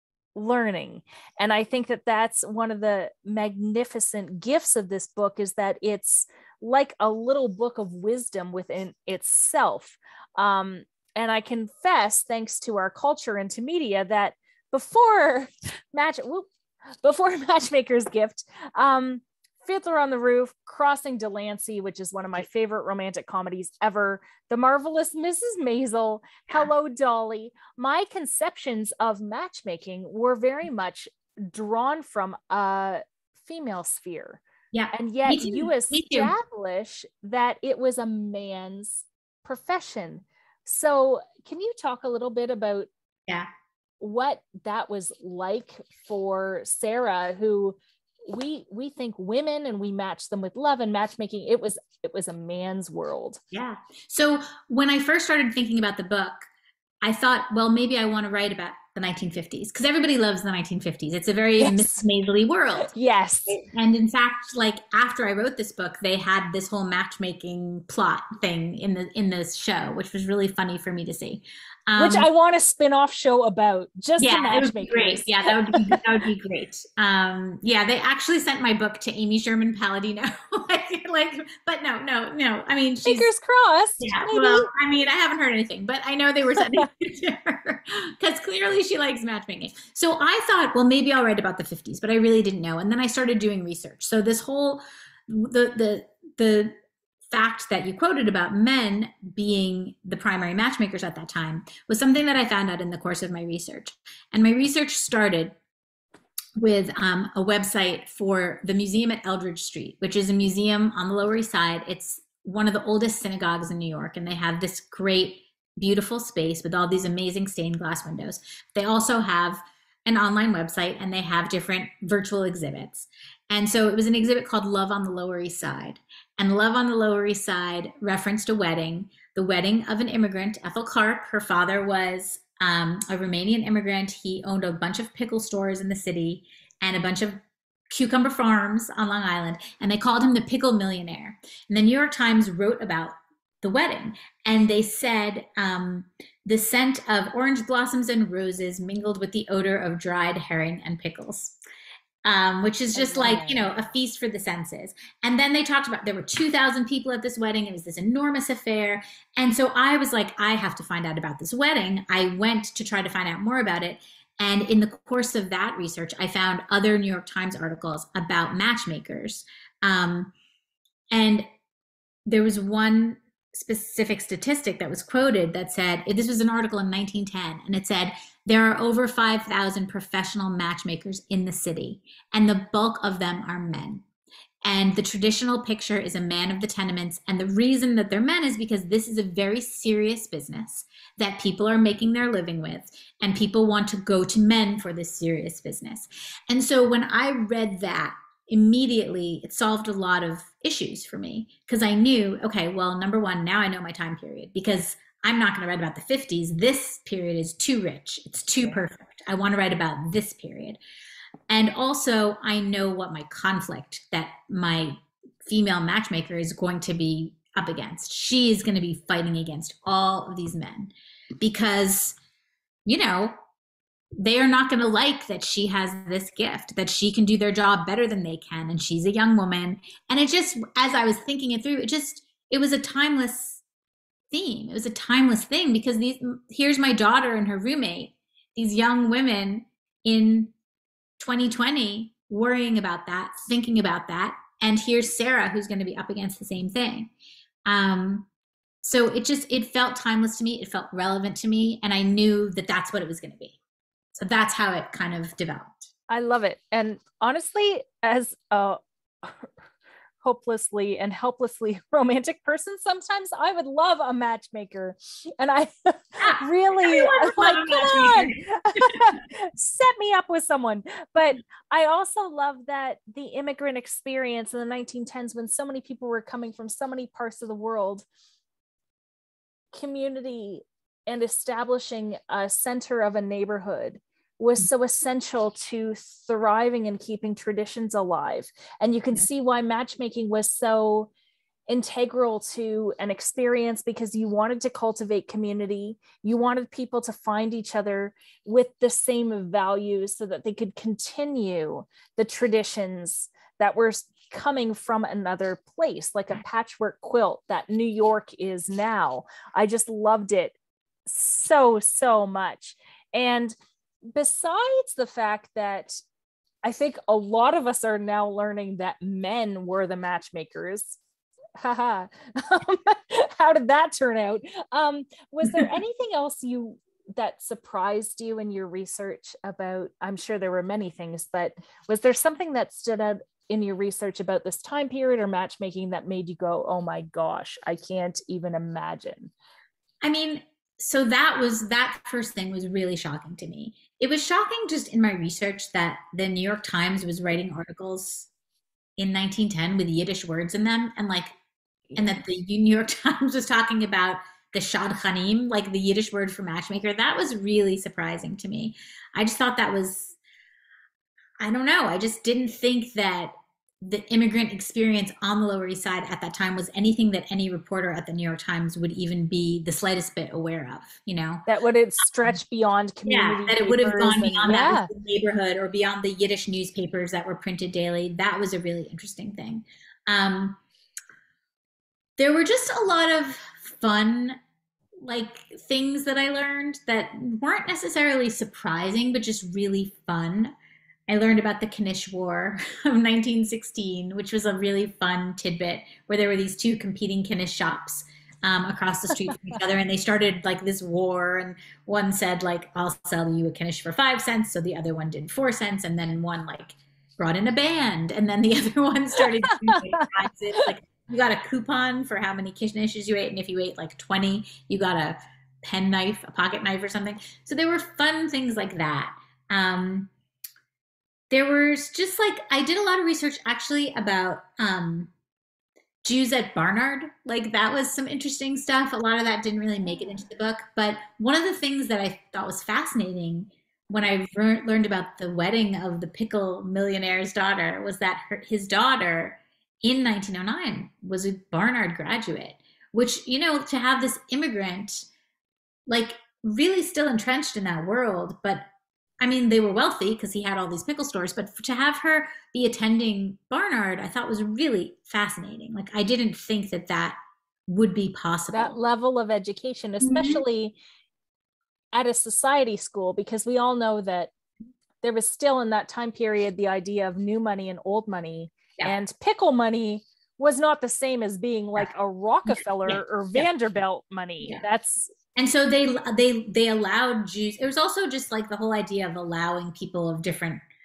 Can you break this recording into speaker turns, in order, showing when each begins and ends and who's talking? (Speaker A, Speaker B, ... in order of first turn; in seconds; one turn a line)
Speaker A: 0.3-16.5
Speaker A: 17.0-42.9
Speaker B: 34.7-36.3
Speaker A: 44.0-53.4
Speaker B: 53.5-56.5
Speaker B: 57.0-62.9
Speaker A: 61.6-62.0
Speaker A: 62.8-63.6
Speaker B: 63.5-72.3
Speaker A: 72.0-76.0
Speaker B: 74.2-83.3
Speaker A: 83.0-84.7
Speaker B: 84.0-96.7
Speaker A: 86.6-86.9
Speaker B: 97.3-105.5
Speaker B: 106.6-151.6
Speaker B: 152.2-170.3
Speaker A: 152.9-153.7
Speaker B: 171.1-171.4
Speaker B: 172.3-184.0
Speaker B: 184.7-210.8
Speaker B: 211.5-222.2
Speaker B: 222.9-223.3
Speaker B: 224.2-233.6
Speaker B: 234.3-240.5
Speaker B: 241.2-247.1
Speaker B: 247.7-248.3
Speaker B: 248.8-253.6
Speaker B: 254.2-255.9
Speaker A: 256.1-259.5
Speaker A: 260.2-278.1
Speaker B: 266.2-269.1
Speaker A: 279.7-291.1
Speaker A: 291.7-310.6
Speaker A: 311.1-313.6
Speaker A: 314.1-316.0
Speaker A: 316.6-321.0
Speaker A: 321.6-339.3
Speaker B: 340.0-348.3
Speaker B: 349.0-351.3
Speaker B: 351.9-360.1
Speaker B: 361.4-371.5
Speaker A: 371.5-374.9
Speaker B: 373.1-380.6
Speaker B: 382.2-384.4
Speaker B: 385.0-390.5
Speaker B: 391.1-420.1
Speaker A: 409.2-410.1
Speaker B: 421.3-425.1
Speaker B: 426.0-445.1
Speaker A: 429.8-430.2
Speaker B: 445.9-448.6
Speaker B: 449.2-458.8
Speaker A: 458.5-460.8
Speaker B: 460.0-460.4
Speaker A: 461.9-464.3
Speaker A: 465.0-475.1
Speaker B: 472.5-473.5
Speaker B: 475.4-480.6